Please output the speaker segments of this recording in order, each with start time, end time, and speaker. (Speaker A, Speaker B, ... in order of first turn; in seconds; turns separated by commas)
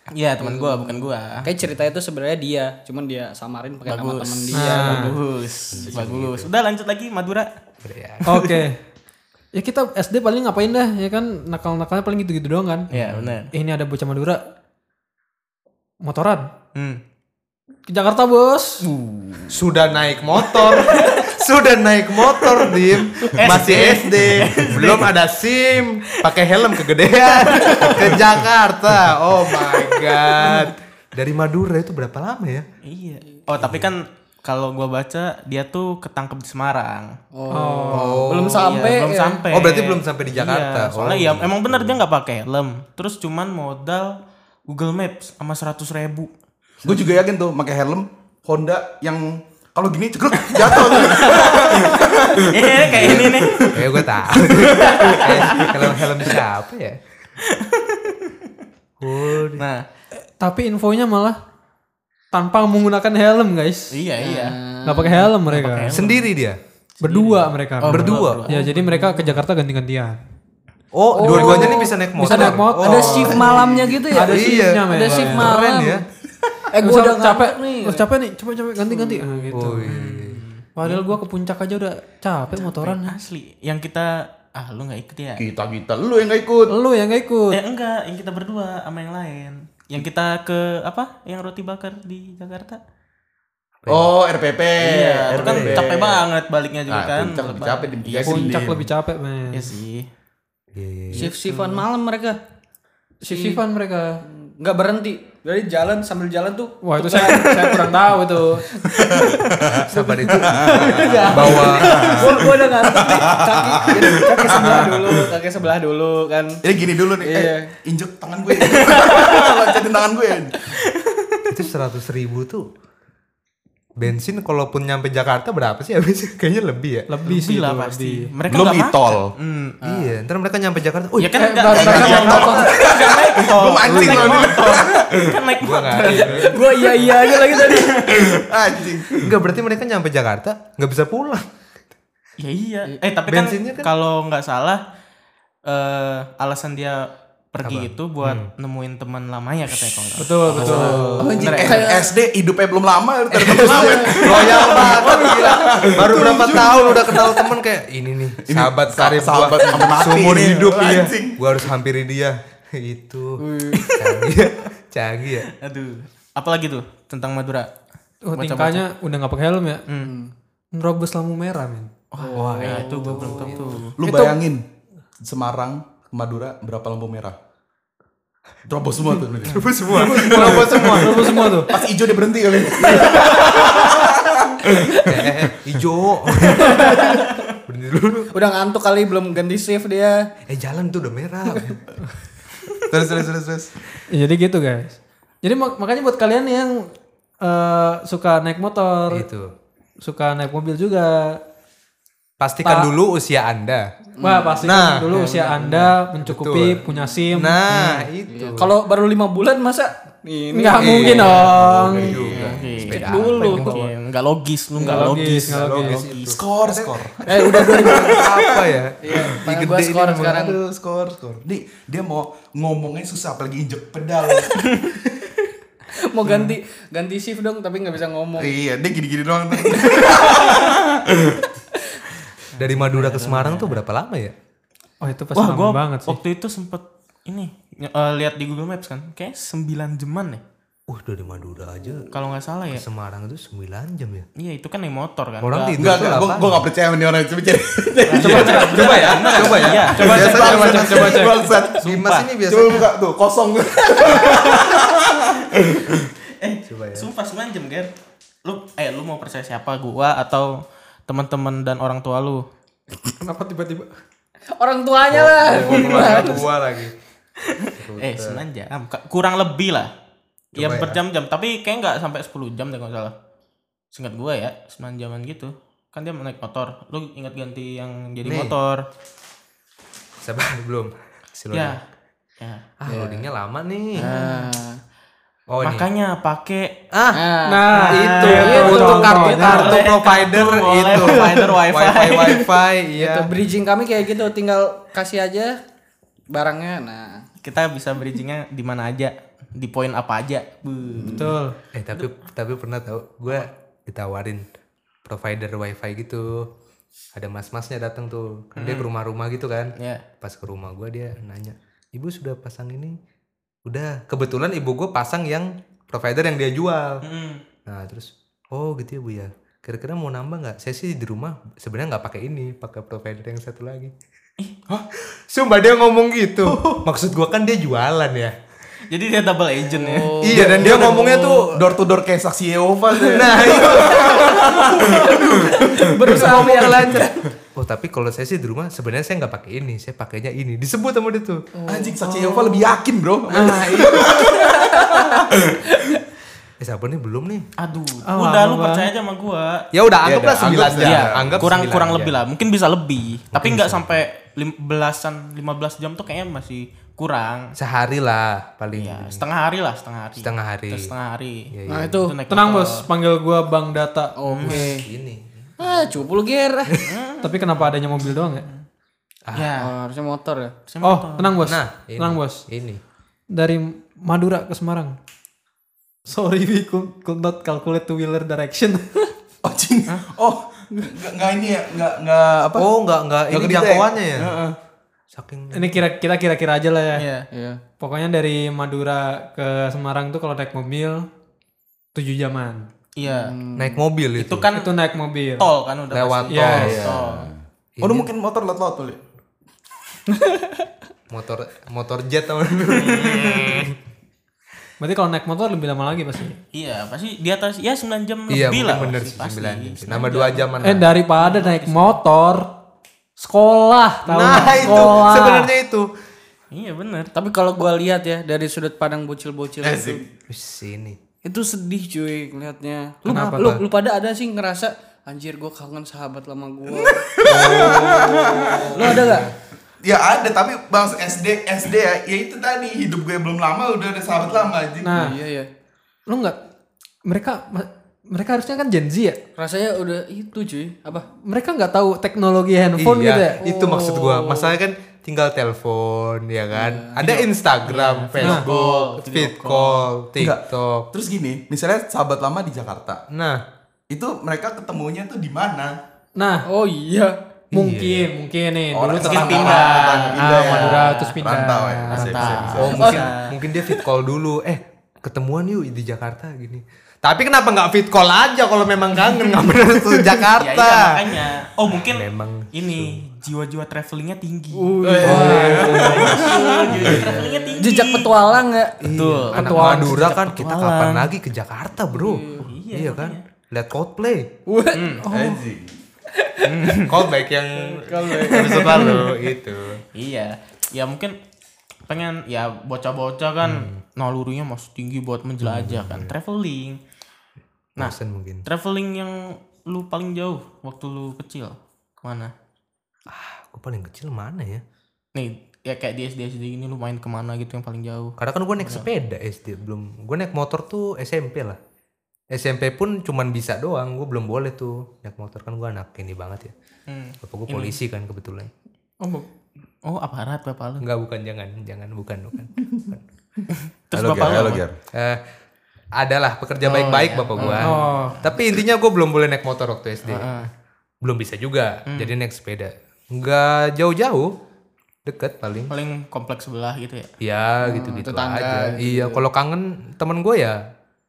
Speaker A: 0.2-1.5, Speaker B: 0.4-5.2, Speaker A: 3.9-7.5, Speaker C: 4.5-5.2, Speaker D: 5.7-6.5, Speaker D: 7.8-8.3, Speaker A: 8.2-8.6, Speaker C: 8.2-8.8, Speaker C: 9.5-12.9, Speaker A: 12.9-13.5, Speaker D: 12.9-13.4, Speaker C: 13.5-14.4, Speaker C: 16.0-16.5, Speaker A: 16.7-17.0, Speaker C: 17.9-18.9, Speaker A: 18.8-19.6, Speaker D: 19.5-32.6, Speaker A: 20.3-21.3, Speaker A: 22.3-25.1, Speaker A: 26.2-28.2, Speaker A: 29.5-30.7, Speaker A: 32.8-37.1, Speaker D: 33.6-33.9, Speaker B: 37.3-39.5, Speaker C: 37.5-38.2, Speaker D: 37.9-38.8, Speaker A: 38.5-44.2, Speaker D: 39.5-42.0, Speaker A: 44.7-46.3, Speaker E: 46.8-53.8, Speaker A: 50.8-53.8, Speaker D: 52.9-57.0, Speaker A: 54.6-56.4, Speaker E: 54.8-55.1, Speaker A: 57.4-58.5, Speaker D: 59.0-59.6, Speaker A: 59.5-59.8, Speaker C: 60.4-61.4, Speaker C: 62.3-63.9, Speaker A: 63.9-64.6, Speaker B: 64.2-65.3, Speaker C: 64.8-65.9, Speaker A: 65.5-66.3, Speaker D: 65.9-66.6, Speaker C: 67.0-70.2, Speaker A: 67.0-69.4, Speaker D: 67.9-68.4, Speaker D: 70.9-73.5, Speaker B: 71.1-76.0, Speaker C: 71.2-73.5, Speaker E: 73.4-74.0, Speaker C: 74.1-75.6, Speaker D: 74.2-76.0, Speaker B: 76.7-78.0, Speaker C: 76.8-79.9, Speaker B: 78.9-79.5, Speaker D: 79.5-80.4, Speaker A: 79.8-81.1, Speaker C: 80.8-83.2, Speaker A: 82.5-85.4, Speaker E: 85.4-86.8, Speaker C: 86.7-87.6, Speaker A: 87.5-92.8, Speaker D: 93.8-94.1, Speaker E: 93.9-96.2, Speaker A: 94.8-98.6, Speaker D: 95.4-95.8, Speaker E: 96.9-98.8, Speaker C: 98.2-99.8, Speaker A: 99.5-100.1, Speaker D: 100.7-101.3, Speaker B: 101.1-102.4, Speaker A: 101.2-101.8, Speaker C: 103.2-104.2, Speaker B: 103.3-103.6, Speaker B: 104.2-116.6, Speaker C: 106.8-108.7, Speaker E: 109.0-115.3, Speaker D: 109.6-112.5, Speaker C: 110.7-111.2, Speaker E: 116.6-120.7, Speaker B: 117.2-117.7, Speaker A: 118.7-119.6, Speaker A: 120.7-121.5, Speaker D: 121.5-122.7, Speaker D: 124.0-127.1, Speaker C: 127.1-128.3, Speaker A: 127.2-130.1, Speaker E: 128.5-129.3, Speaker D: 129.8-132.6, Speaker A: 131.2-137.8, Speaker C: 131.3-132.6, Speaker E: 131.7-135.4, Speaker B: 132.8-133.2, Speaker D: 133.8-134.6, Speaker D: 135.6-136.6, Speaker B: 136.1-138.2, Speaker E: 138.0-139.3, Speaker D: 139.1-141.4, Speaker A: 142.4-144.8, Speaker D: 143.3-143.9, Speaker A: 145.7-151.9, Speaker D: 147.6-148.5, Speaker C: 150.2-151.3, Speaker D: 150.5-151.6, Speaker E: 150.7-157.2, Speaker B: 151.5-152.2, Speaker D: 153.3-163.4, Speaker B: 153.7-154.3, Speaker E: 158.4-161.4, Speaker B: 163.4-163.9, Speaker A: 163.7-164.0, Speaker D: 164.0-165.5, Speaker A: 165.5-167.7, Speaker C: 168.3-169.8, Speaker A: 168.3-168.8, Speaker B: 170.0-170.3, Speaker C: 170.7-171.9, Speaker A: 172.1-173.9, Speaker B: 172.2-174.3, Speaker D: 172.3-173.8, Speaker E: 174.0-174.6, Speaker E: 175.2-177.3, Speaker E: 178.7-185.2, Speaker D: 179.5-181.4, Speaker C: 179.9-181.7, Speaker D: 185.0-187.2, Speaker B: 186.5-187.4, Speaker D: 187.7-188.3, Speaker B: 188.3-190.2, Speaker D: 190.5-191.8, Speaker E: 192.9-193.7, Speaker C: 194.1-196.9, Speaker C: 197.4-199.2, Speaker D: 199.1-199.5, Speaker C: 200.0-201.4, Speaker D: 202.4-203.8, Speaker C: 202.6-202.9, Speaker C: 204.2-208.0, Speaker B: 204.2-204.6, Speaker D: 204.6-205.1, Speaker D: 206.2-206.8, Speaker D: 207.3-208.7, Speaker B: 208.3-211.4, Speaker C: 210.5-212.2, Speaker D: 210.8-213.9, Speaker E: 211.8-212.7, Speaker A: 212.3-216.4, Speaker B: 212.7-213.7, Speaker C: 214.8-216.1, Speaker B: 214.8-215.1, Speaker D: 214.9-217.0, Speaker E: 216.3-218.3, Speaker B: 217.2-218.3, Speaker D: 217.9-220.6, Speaker B: 219.0-220.6, Speaker E: 220.3-225.3, Speaker B: 225.9-228.5, Speaker A: 226.3-226.5, Speaker E: 228.4-231.4, Speaker B: 229.7-230.7, Speaker A: 232.5-233.8, Speaker D: 232.6-234.3, Speaker C: 235.0-236.2, Speaker A: 235.3-240.4, Speaker D: 240.9-242.1, Speaker A: 242.1-242.8, Speaker D: 242.7-244.3, Speaker A: 244.4-246.0, Speaker D: 245.4-246.7, Speaker E: 245.8-251.8, Speaker A: 248.1-250.6, Speaker D: 248.2-251.2, Speaker C: 248.2-248.8, Speaker C: 249.9-251.4, Speaker A: 251.8-252.3, Speaker D: 251.8-252.9, Speaker E: 252.4-256.1, Speaker A: 256.4-257.9, Speaker D: 256.6-257.1, Speaker A: 258.4-262.4, Speaker C: 263.2-263.9, Speaker B: 264.6-266.5, Speaker D: 265.1-266.9, Speaker A: 265.6-266.4, Speaker A: 267.4-269.9, Speaker D: 267.8-268.4, Speaker D: 270.5-271.0, Speaker A: 270.6-273.1, Speaker A: 273.9-278.9, Speaker D: 278.2-278.5, Speaker D: 280.2-281.8, Speaker A: 281.5-281.8, Speaker A: 282.4-282.7, Speaker D: 282.8-284.1, Speaker B: 282.9-283.3, Speaker B: 283.9-284.8, Speaker A: 284.0-284.5, Speaker D: 285.5-285.9, Speaker A: 285.6-286.8, Speaker D: 286.9-287.3, Speaker B: 287.1-289.8, Speaker C: 287.4-289.8, Speaker A: 287.7-292.5, Speaker D: 287.9-293.3, Speaker B: 293.0-295.6, Speaker B: 296.3-297.2, Speaker A: 297.4-301.3, Speaker B: 300.9-301.3, Speaker C: 301.1-301.5, Speaker D: 301.7-304.4, Speaker D: 305.0-306.5, Speaker D: 307.1-313.0, Speaker A: 308.6-308.9, Speaker A: 309.8-310.0, Speaker D: 313.6-317.0, Speaker A: 317.0-317.4, Speaker D: 317.6-323.9, Speaker D: 325.0-328.3, Speaker A: 328.9-330.4, Speaker B: 329.6-331.4, Speaker D: 330.2-331.5, Speaker E: 330.4-330.9, Speaker E: 331.5-336.0, Speaker D: 333.0-335.1, Speaker B: 333.8-337.2, Speaker D: 336.0-341.4, Speaker C: 341.7-342.3, Speaker E: 341.7-344.8, Speaker D: 343.3-344.3, Speaker B: 344.2-346.0, Speaker E: 345.3-345.6, Speaker D: 346.6-347.5, Speaker A: 347.6-349.7, Speaker C: 348.1-348.9, Speaker D: 349.7-352.2, Speaker E: 350.0-351.5, Speaker A: 350.7-357.5, Speaker D: 353.3-354.0, Speaker D: 357.6-359.2, Speaker A: 358.7-362.9, Speaker D: 360.2-360.9, Speaker D: 361.5-362.0, Speaker B: 361.7-362.1, Speaker C: 362.3-364.6, Speaker B: 364.2-364.9, Speaker A: 364.3-364.7, Speaker D: 364.5-365.5, Speaker B: 365.6-366.8, Speaker A: 366.8-368.6, Speaker C: 367.2-368.4, Speaker A: 369.3-369.7, Speaker B: 369.6-370.5, Speaker A: 370.7-371.4, Speaker C: 370.8-372.4, Speaker D: 371.4-372.8, Speaker C: 373.3-374.9, Speaker C: 376.1-379.1, Speaker E: 379.4-382.7, Speaker D: 382.6-384.4, Speaker E: 383.3-384.6, Speaker D: 385.1-385.8, Speaker C: 385.5-387.1, Speaker A: 386.9-387.3, Speaker B: 387.3-387.6, Speaker C: 387.8-391.1, Speaker C: 391.9-392.7, Speaker A: 392.9-393.3, Speaker B: 393.0-393.8, Speaker D: 393.6-394.5, Speaker A: 394.2-394.8, Speaker C: 394.5-395.5, Speaker A: 395.4-397.3, Speaker D: 395.9-397.0, Speaker C: 396.3-396.7, Speaker E: 396.5-399.0, Speaker D: 397.8-398.1, Speaker B: 400.1-400.6, Speaker D: 401.1-403.7, Speaker A: 402.7-403.7, Speaker C: 404.8-406.4, Speaker A: 406.5-410.5, Speaker D: 408.3-410.9, Speaker C: 410.6-412.5, Speaker A: 411.2-412.0, Speaker C: 413.2-415.5, Speaker D: 414.1-415.9, Speaker B: 414.6-415.3, Speaker A: 416.5-417.1, Speaker B: 417.1-420.0, Speaker E: 419.6-420.1, Speaker D: 420.3-421.0, Speaker B: 421.2-429.3, Speaker D: 423.0-423.6, Speaker C: 423.1-423.5, Speaker E: 426.9-429.2, Speaker D: 427.2-429.3, Speaker E: 429.8-435.1, Speaker C: 434.8-435.1, Speaker B: 434.9-435.5, Speaker C: 436.1-436.4, Speaker C: 437.1-439.2, Speaker B: 439.4-441.1, Speaker C: 441.2-443.4, Speaker D: 442.8-450.9, Speaker B: 443.4-444.5, Speaker B: 446.5-447.2, Speaker A: 447.0-449.9, Speaker B: 448.4-448.9, Speaker E: 450.2-453.0, Speaker D: 453.1-453.4, Speaker E: 453.9-455.8, Speaker C: 456.2-456.4, Speaker B: 456.5-457.1, Speaker D: 457.5-458.1, Speaker C: 457.5-462.6, Speaker E: 458.7-463.0, Speaker A: 459.0-461.1, Speaker A: 461.9-463.3, Speaker D: 462.6-471.0, Speaker A: 470.4-478.4, Speaker D: 471.7-473.0, Speaker B: 474.5-478.8, Speaker E: 474.8-477.1, Speaker C: 475.0-476.0, Speaker D: 475.1-476.1, Speaker D: 476.8-477.3, Speaker D: 478.8-484.3, Speaker A: 478.9-481.1, Speaker C: 479.3-480.2, Speaker B: 481.9-482.4, Speaker A: 482.4-483.2, Speaker B: 484.5-485.0, Speaker A: 484.7-485.0, Speaker C: 485.1-485.4, Speaker E: 485.1-485.7, Speaker B: 486.1-486.7, Speaker A: 486.4-487.0, Speaker D: 486.9-489.8, Speaker B: 487.7-489.1, Speaker A: 488.1-489.2, Speaker A: 489.9-491.1, Speaker A: 491.9-496.8, Speaker D: 493.4-493.8, Speaker D: 495.4-496.1, Speaker D: 497.8-498.4, Speaker A: 497.8-502.3, Speaker D: 503.1-504.6, Speaker A: 505.1-508.9, Speaker D: 508.2-511.6, Speaker D: 512.3-516.5, Speaker A: 516.9-517.8, Speaker D: 517.2-518.5, Speaker A: 519.8-520.9, Speaker D: 520.8-523.0, Speaker A: 523.5-524.6, Speaker E: 523.9-524.7, Speaker D: 524.0-525.2, Speaker D: 526.0-530.5, Speaker A: 526.6-528.3, Speaker C: 527.6-528.2, Speaker A: 530.0-530.5, Speaker D: 531.0-534.3, Speaker A: 531.9-532.1, Speaker D: 535.0-535.7, Speaker A: 535.7-537.1, Speaker D: 537.2-540.6, Speaker B: 537.6-539.2